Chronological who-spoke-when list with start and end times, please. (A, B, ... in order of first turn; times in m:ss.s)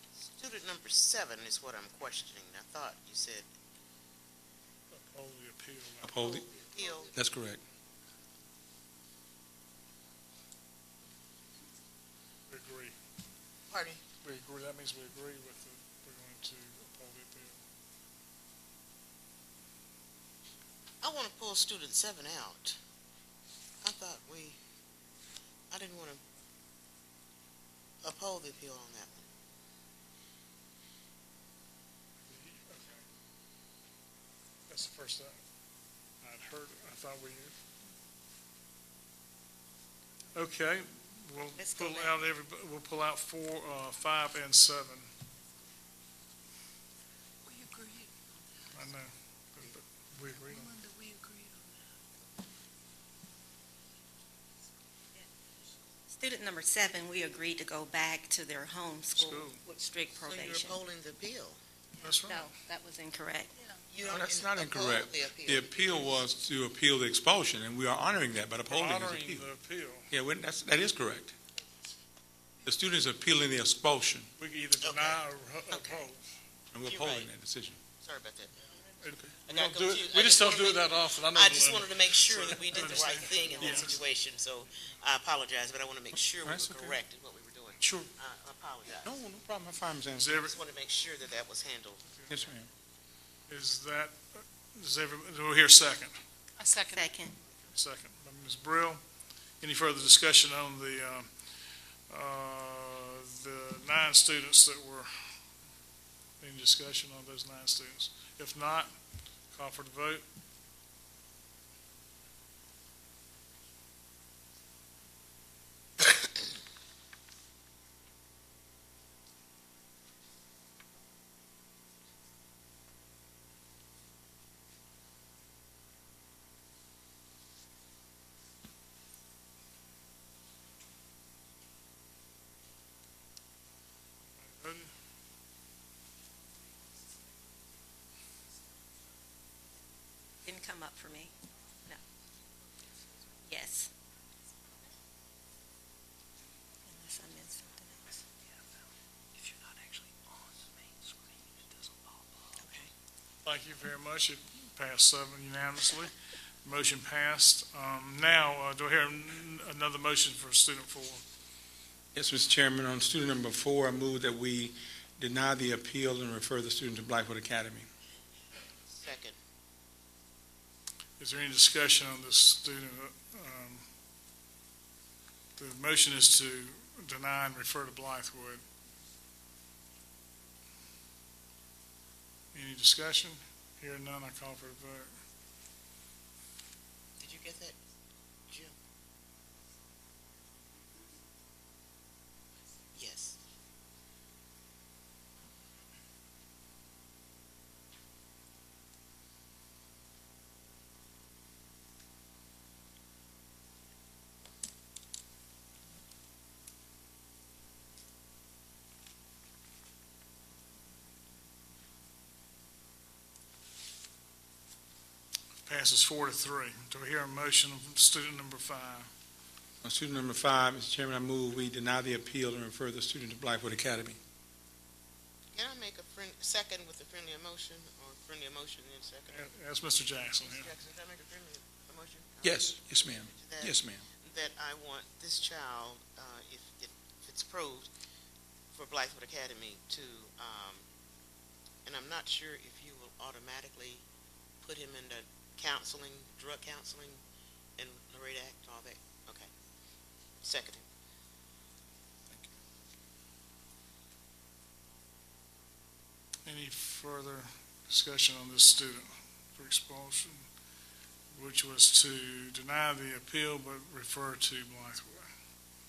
0:00.2-0:03.4 A
0:04.9-0:06.1 B
0:06.0-0:06.4 C
0:06.1-0:07.2 A
0:07.1-0:07.6 C
0:12.5-0:12.9 B
0:13.7-0:14.0 A
0:14.2-0:17.6 B
0:21.0-0:22.8 A
0:23.8-0:24.6 A
0:25.7-0:26.2 A
0:28.0-0:29.2 A
0:32.3-0:33.0 B
0:34.7-0:35.4 B
0:36.2-0:37.6 B
0:40.3-0:45.1 B
0:41.5-0:42.2 D
0:47.5-0:48.1 E
0:48.7-0:50.8 B
0:50.5-0:51.7 E
0:56.2-1:00.8 D
0:59.1-0:59.6 B
1:00.2-1:01.6 A
1:02.0-1:02.5 B
1:02.1-1:03.5 D
1:03.9-1:06.2 A
1:04.0-1:09.5 C
1:08.7-1:10.1 B
1:10.1-1:11.3 C
1:12.6-1:14.3 C
1:14.4-1:16.3 B
1:14.8-1:15.2 A
1:16.7-1:17.8 C
1:16.8-1:17.3 A
1:18.0-1:18.5 A
1:19.0-1:24.0 B
1:19.4-1:29.1 A
1:22.9-1:23.8 D
1:26.4-1:27.0 C
1:27.8-1:28.1 B
1:29.0-1:30.4 C
1:30.2-1:30.6 B
1:30.3-1:32.3 A
1:32.3-1:32.7 C
1:33.5-1:36.2 B
1:36.6-1:37.1 E
1:36.9-1:37.3 D
1:37.6-1:39.0 B
1:39.6-1:41.3 B
1:42.1-1:45.1 B
1:46.4-1:48.9 B
1:49.5-1:50.2 B
2:14.5-2:14.9 B
2:20.4-2:21.3 D
2:23.4-2:23.9 D
2:26.9-2:28.2 D
2:29.4-2:30.4 E
2:32.1-2:32.4 E
2:32.6-2:32.9 D
2:33.4-2:36.1 B
2:36.6-2:41.2 B
2:42.1-2:47.9 C
2:48.9-2:49.4 A
2:51.2-2:53.8 B
2:55.6-2:58.6 B
3:02.5-3:05.1 B
3:07.2-3:07.8 A
3:08.5-3:08.7 A
3:12.9-3:13.4 A
3:35.6-3:39.1 B
3:39.8-3:44.2 C
3:45.5-3:49.5 A
3:49.3-3:50.7 B
3:50.4-3:52.6 A
3:52.4-3:54.0 C
3:53.3-3:57.9 A
3:58.7-4:00.8 A
4:01.8-4:04.0 A
4:04.6-4:07.2 A
4:07.8-4:09.5 A
4:10.4-4:10.8 A
4:16.4-4:20.4 B
4:21.3-4:25.3 B